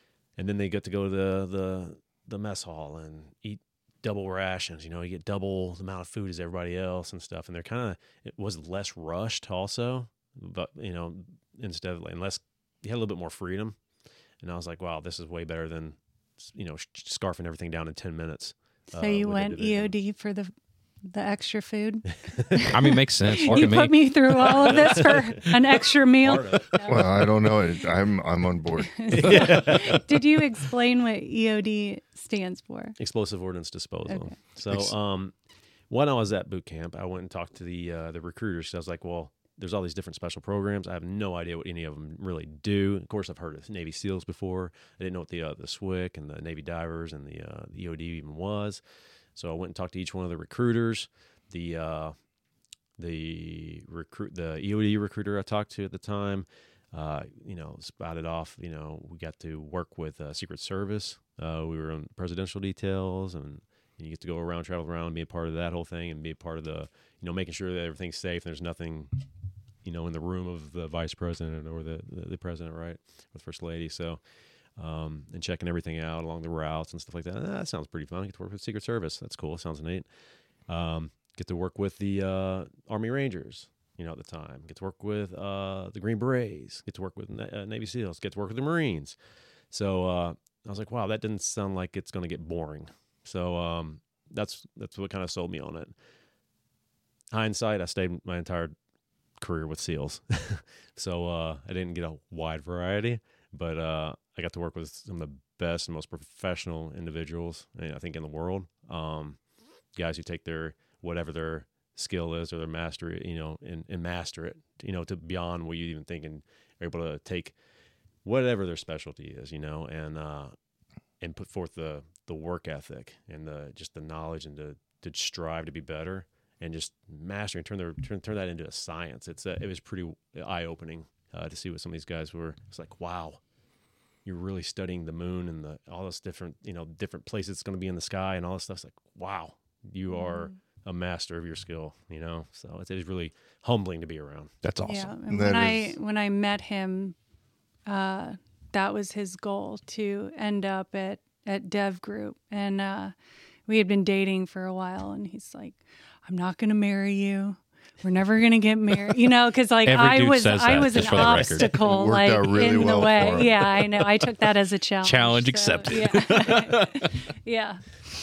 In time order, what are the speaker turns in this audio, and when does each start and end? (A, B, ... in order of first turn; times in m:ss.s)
0:00.4-0:13.8 A
0:14.4-0:19.9 A
0:18.9-0:20.5 B
0:21.0-0:27.2 B
0:22.2-0:22.7 A
0:22.6-0:24.1 C
0:23.3-0:23.7 A
0:24.4-0:27.4 A
0:26.8-0:29.8 D
0:29.0-0:33.0 B
0:29.1-0:30.1 A
0:33.0-0:35.4 A
0:34.1-0:34.3 B
0:35.9-0:48.8 A
0:49.3-0:52.2 A
0:53.0-1:09.1 A
1:09.8-1:29.2 A
1:29.7-1:35.9 A
1:37.3-1:38.7 A
1:39.4-1:57.5 A
1:58.2-2:00.5 A
2:01.2-2:13.4 A
2:14.2-2:24.5 A
2:20.1-2:20.5 B
2:24.6-2:25.1 C
2:24.8-2:27.1 B
2:25.3-2:26.0 D
2:27.8-2:33.1 B
2:33.7-2:47.9 B
2:39.8-2:41.8 C
2:41.1-2:41.6 A
2:41.8-2:43.7 D
2:45.0-2:47.1 C